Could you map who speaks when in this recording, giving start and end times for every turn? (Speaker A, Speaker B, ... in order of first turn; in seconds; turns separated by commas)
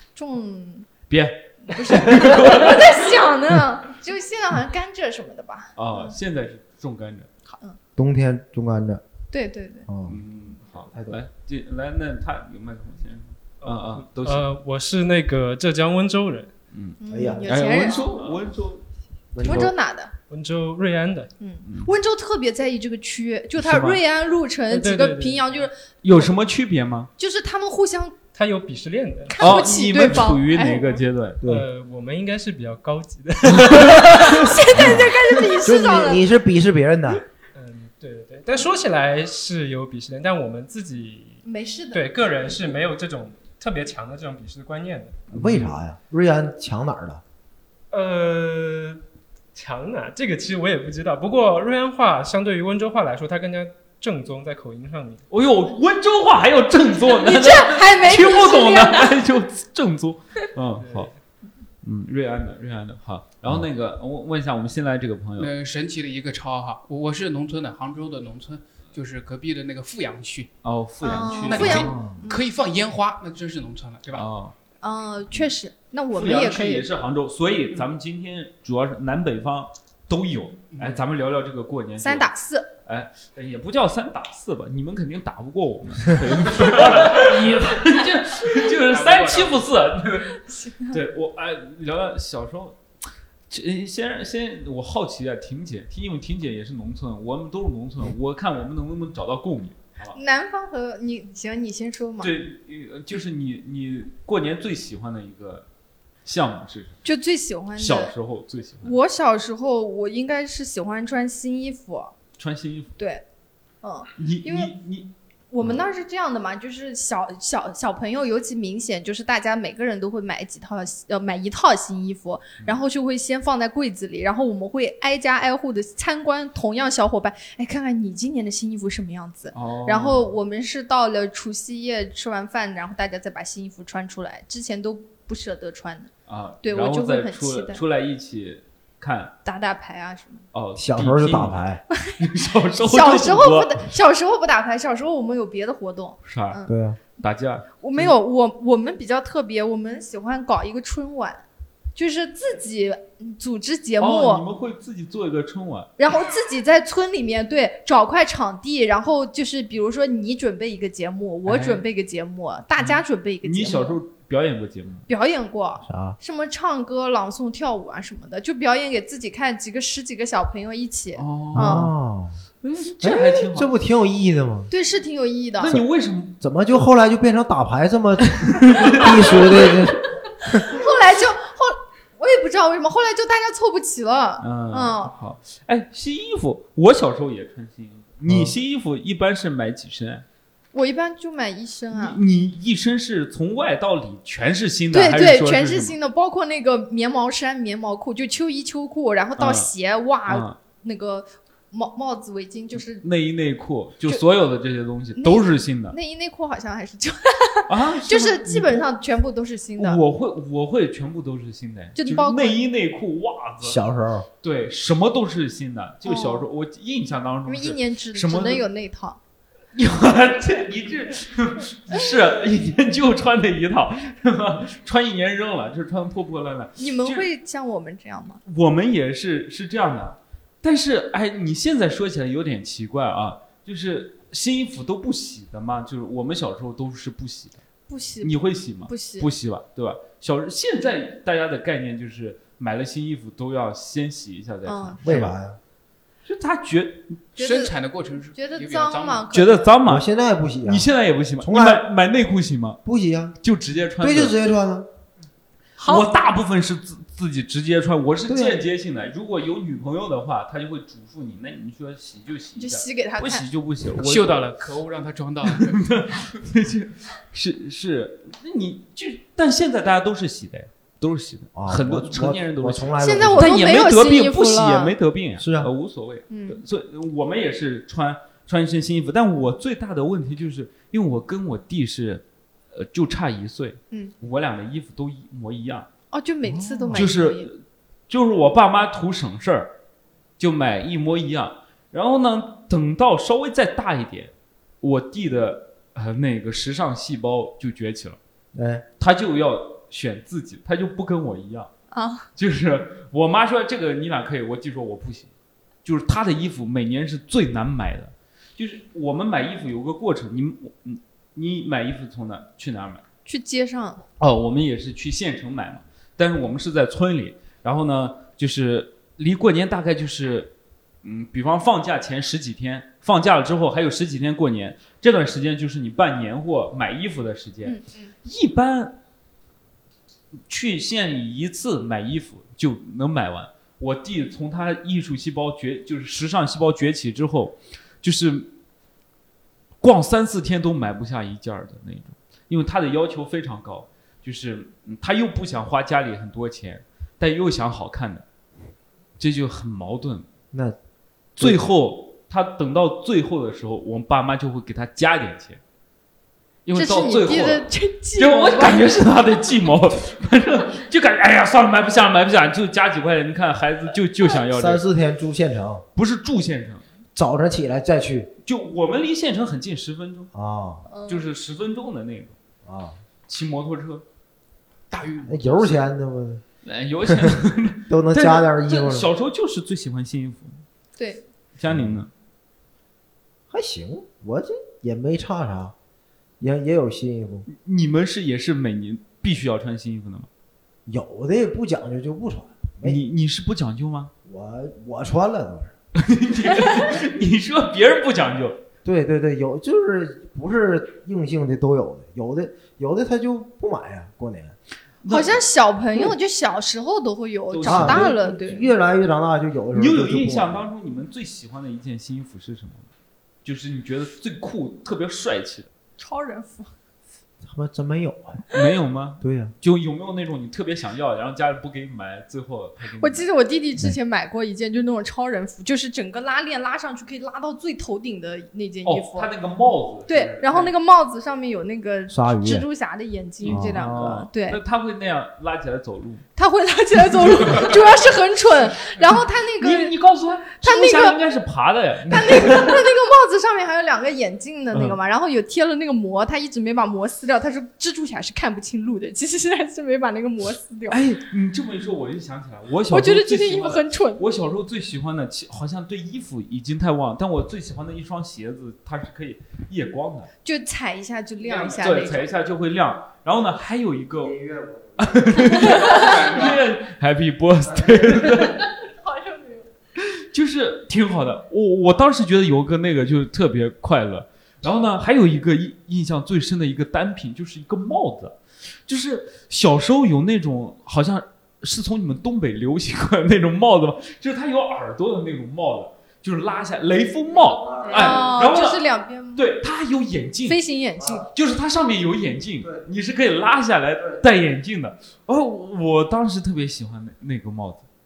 Speaker A: 0.2-0.9, Speaker B: 1.1-3.1, Speaker A: 1.7-6.2, Speaker B: 5.8-7.3, Speaker A: 7.5-7.8, Speaker C: 8.0-9.0, Speaker A: 9.3-9.9, Speaker C: 9.9-10.2, Speaker B: 10.1-14.5, Speaker C: 10.9-11.2, Speaker D: 13.6-16.5, Speaker B: 16.7-18.8, Speaker A: 17.0-18.3, Speaker C: 17.1-17.9, Speaker C: 19.3-19.7, Speaker B: 19.4-19.7, Speaker A: 19.4-20.1, Speaker D: 20.3-21.3, Speaker A: 21.4-26.3, Speaker B: 21.6-21.9, Speaker B: 23.6-24.0, Speaker D: 24.7-25.6, Speaker B: 26.0-27.1, Speaker A: 27.2-28.2, Speaker D: 28.3-29.5, Speaker A: 29.3-31.0, Speaker B: 29.4-31.4, Speaker C: 31.4-31.7, Speaker D: 31.4-34.0, Speaker B: 33.5-34.9, Speaker A: 33.8-36.2, Speaker C: 34.7-37.2, Speaker D: 37.5-45.2, Speaker A: 41.4-42.2, Speaker C: 45.3-47.2, Speaker B: 45.3-45.7, Speaker D: 47.9-49.0, Speaker D: 49.5-55.2, Speaker B: 55.3-61.1, Speaker A: 57.1-59.2, Speaker D: 60.8-61.1, Speaker B: 61.8-65.5, Speaker E: 65.4-70.5, Speaker B: 70.6-72.0, Speaker A: 71.0-72.5, Speaker E: 71.2-74.3, Speaker B: 74.1-74.5, Speaker A: 74.8-76.9, Speaker B: 76.1-82.3, Speaker E: 80.7-81.0, Speaker A: 82.0-82.7, Speaker B: 82.9-92.8, Speaker E: 86.5-87.8, Speaker E: 88.6-89.6, Speaker A: 90.5-91.0, Speaker B: 93.5-100.2, Speaker A: 100.1-102.3, Speaker B: 102.2-105.7, Speaker B: 106.2-107.0, Speaker A: 107.0-108.1, Speaker B: 107.8-109.0, Speaker A: 108.8-112.1, Speaker B: 112.4-113.0, Speaker A: 113.0-113.2, Speaker A: 113.8-114.7, Speaker B: 114.2-115.1, Speaker A: 115.5-136.1, Speaker B: 129.5-130.3, Speaker B: 136.3-139.3, Speaker A: 136.6-137.8, Speaker A: 139.4-140.4, Speaker B: 140.5-143.9, Speaker C: 140.8-141.8, Speaker A: 142.8-146.8, Speaker B: 146.2-146.6, Speaker C: 146.7-147.0, Speaker B: 147.2-148.1, Speaker A: 147.8-151.4, Speaker A: 152.0-154.4, Speaker B: 154.0-155.9, Speaker A: 156.0-164.0, Speaker B: 161.4-161.8, Speaker B: 162.8-165.1, Speaker A: 165.1-171.9, Speaker C: 165.9-166.2, Speaker B: 171.2-171.9, Speaker C: 171.5-172.4, Speaker B: 172.7-173.7, Speaker C: 173.0-174.7, Speaker A: 173.0-173.4, Speaker A: 174.7-175.7, Speaker B: 175.6-176.4, Speaker C: 176.4-180.8, Speaker B: 178.6-179.7, Speaker A: 180.7-185.1, Speaker B: 184.4-190.2, Speaker C: 188.2-188.5, Speaker A: 190.7-192.2, Speaker B: 191.9-196.0, Speaker A: 194.9-203.0, Speaker B: 199.4-199.7, Speaker B: 200.3-200.6, Speaker B: 202.7-206.0, Speaker A: 205.2-210.0, Speaker B: 207.7-208.9, Speaker B: 209.8-213.8, Speaker A: 212.0-212.6, Speaker C: 213.6-214.3, Speaker B: 214.4-218.7, Speaker A: 216.1-216.5, Speaker A: 217.5-219.2, Speaker B: 219.8-227.3, Speaker A: 226.8-228.4, Speaker B: 228.5-237.6, Speaker A: 237.9-239.3, Speaker B: 238.2-245.3, Speaker A: 244.7-245.2, Speaker C: 245.0-245.6, Speaker B: 246.2-247.3, Speaker A: 247.4-247.7, Speaker E: 247.4-249.3, Speaker A: 248.3-249.8, Speaker B: 249.3-250.1, Speaker C: 249.8-250.9, Speaker B: 250.7-252.8, Speaker C: 251.4-251.9, Speaker C: 252.8-253.4, Speaker B: 253.4-254.4, Speaker C: 254.0-254.9, Speaker A: 255.8-256.1, Speaker B: 255.8-264.6, Speaker C: 258.3-258.6, Speaker A: 262.6-263.5, Speaker E: 264.0-265.8, Speaker B: 265.4-285.9, Speaker C: 271.6-273.6, Speaker A: 273.0-274.9, Speaker C: 275.4-275.7, Speaker A: 276.3-276.6, Speaker A: 286.1-287.5, Speaker C: 286.5-287.1, Speaker B: 286.9-289.7, Speaker B: 290.4-298.2, Speaker C: 298.5-298.9, Speaker B: 299.0-301.7, Speaker A: 301.9-302.3, Speaker B: 302.4-305.3, Speaker B: 305.9-313.0, Speaker A: 313.3-314.0, Speaker B: 314.2-320.5, Speaker B: 321.0-329.0, Speaker A: 327.6-328.1, Speaker B: 330.5-338.5, Speaker B: 339.8-348.2, Speaker B: 349.2-350.3, Speaker B: 351.4-355.6, Speaker C: 351.4-351.6, Speaker B: 356.6-364.8, Speaker A: 356.8-359.0, Speaker C: 364.5-365.9, Speaker B: 366.0-366.9, Speaker C: 367.1-368.3, Speaker B: 368.4-370.3, Speaker C: 370.3-370.9, Speaker A: 370.9-371.2, Speaker B: 371.1-372.4, Speaker C: 372.6-373.0, Speaker B: 373.3-374.1, Speaker E: 374.9-375.8, Speaker C: 375.2-376.4, Speaker B: 376.6-380.6, Speaker C: 377.1-377.4, Speaker C: 377.9-379.1, Speaker A: 381.0-381.2, Speaker B: 381.6-382.1, Speaker C: 381.7-382.0, Speaker C: 383.5-385.8, Speaker C: 386.4-387.5, Speaker B: 387.5-390.3, Speaker C: 390.9-393.0, Speaker B: 392.8-394.1, Speaker C: 394.2-395.7, Speaker B: 396.0-398.6, Speaker C: 398.8-404.6, Speaker B: 405.0-405.4, Speaker A: 405.1-408.7, Speaker B: 407.5-408.2, Speaker C: 407.6-410.6, Speaker B: 409.7-412.9, Speaker B: 413.4-415.7, Speaker A: 416.0-416.7, Speaker C: 417.4-418.4, Speaker B: 418.5-423.2, Speaker C: 419.2-419.5, Speaker A: 423.0-429.3, Speaker B: 428.8-430.7, Speaker A: 430.1-434.6, Speaker C: 432.1-432.7, Speaker B: 433.4-436.2, Speaker C: 433.4-434.1, Speaker A: 436.4-439.9, Speaker B: 439.6-442.8, Speaker A: 440.6-441.2, Speaker A: 442.1-451.0, Speaker B: 444.7-445.0, Speaker B: 450.9-460.3, Speaker A: 452.9-454.2, Speaker A: 460.4-462.3, Speaker E: 461.4-461.9, Speaker B: 461.8-464.4, Speaker C: 464.2-465.6, Speaker B: 465.0-468.7, Speaker E: 465.8-466.7, Speaker A: 465.8-466.1, Speaker C: 467.7-468.4, Speaker A: 468.9-469.7, Speaker B: 470.2-488.8, Speaker C: 487.4-488.2, Speaker A: 487.9-489.5, Speaker B: 489.3-490.6, Speaker A: 490.5-491.3, Speaker C: 491.0-491.3, Speaker B: 491.3-497.9